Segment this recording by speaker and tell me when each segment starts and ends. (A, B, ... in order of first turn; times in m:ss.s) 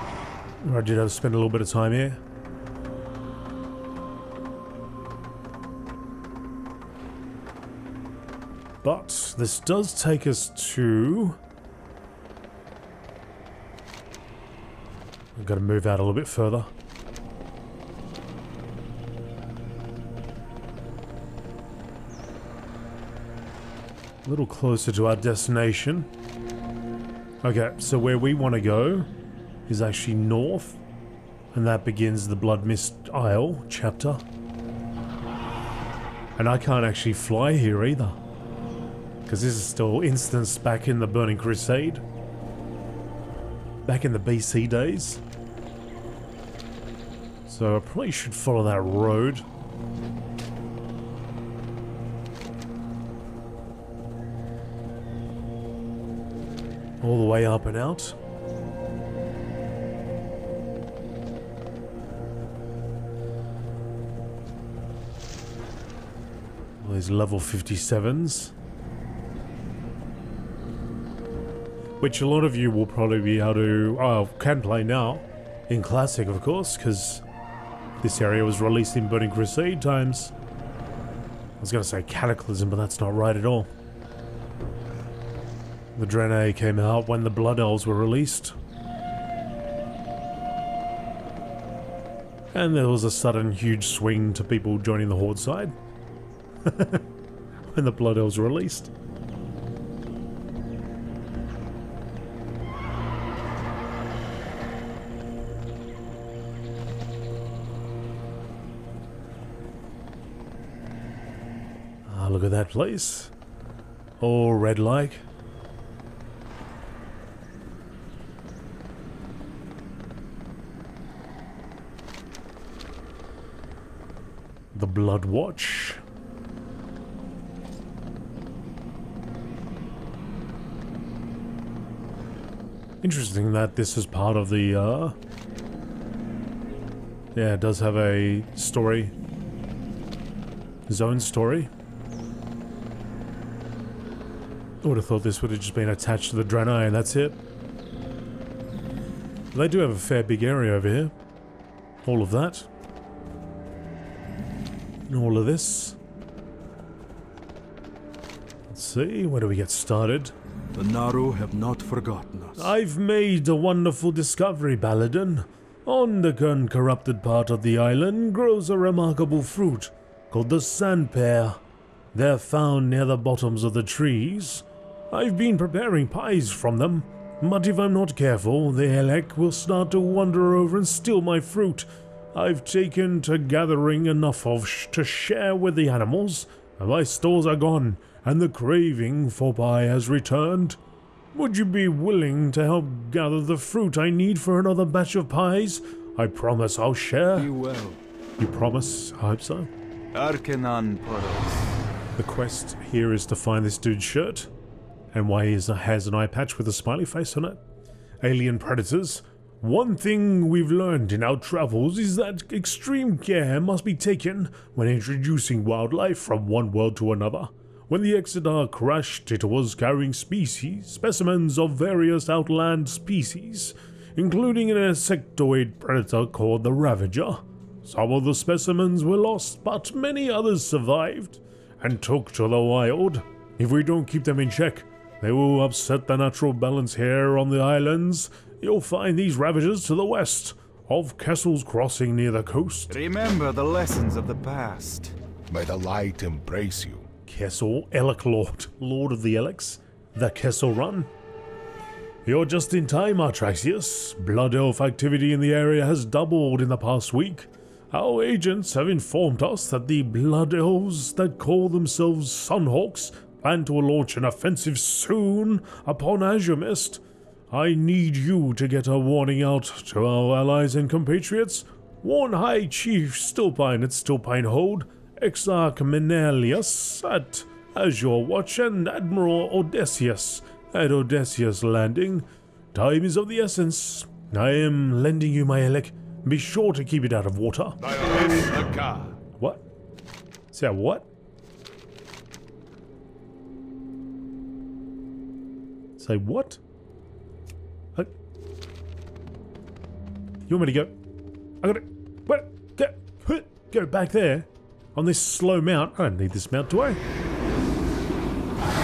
0:00.6-0:02.2 A
0:08.8-0:11.4 A
0:15.4-0:16.7 A
0:24.2-0:26.1 A
0:27.4-0:29.1 A
0:29.7-0:30.8 A
0:31.5-0:34.2 A
0:36.4-0:38.2 A
0:39.2-0:42.0 A
0:43.8-0:45.2 A
0:47.5-0:49.4 A
0:57.0-0:58.2 A
1:06.8-1:08.5 A
1:12.0-1:17.2 A
1:18.0-1:20.3 A
1:21.6-1:23.7 A
1:25.9-1:28.6 A
1:32.5-1:35.7 A
1:36.6-1:37.0 A
1:37.7-1:38.9 A
1:52.0-1:53.3 A
1:54.2-1:55.2 A
2:04.7-2:06.0 A
2:13.0-2:15.2 A
2:17.3-2:19.1 A
2:20.9-2:21.7 A
2:24.8-2:27.4 A
2:29.5-2:31.1 A
2:32.0-2:32.7 A
2:35.1-2:36.0 A
2:38.7-2:40.3 A
2:40.7-2:42.7 B
2:42.6-2:51.6 A
2:52.1-3:10.8 A
3:11.3-3:17.5 A
3:17.4-3:18.0 B
3:18.4-3:19.7 A
3:20.1-3:21.8 B
3:22.2-3:24.5 A
3:25.1-3:27.6 A
3:28.2-4:03.0 A
4:02.9-4:05.2 B
4:05.5-4:07.1 C
4:07.3-4:11.1 A
4:12.2-4:47.8 A
4:47.8-4:49.2 C
4:50.5-4:51.1 A
4:56.0-4:56.6 A
5:00.5-5:01.0 A
5:01.6-5:07.0 A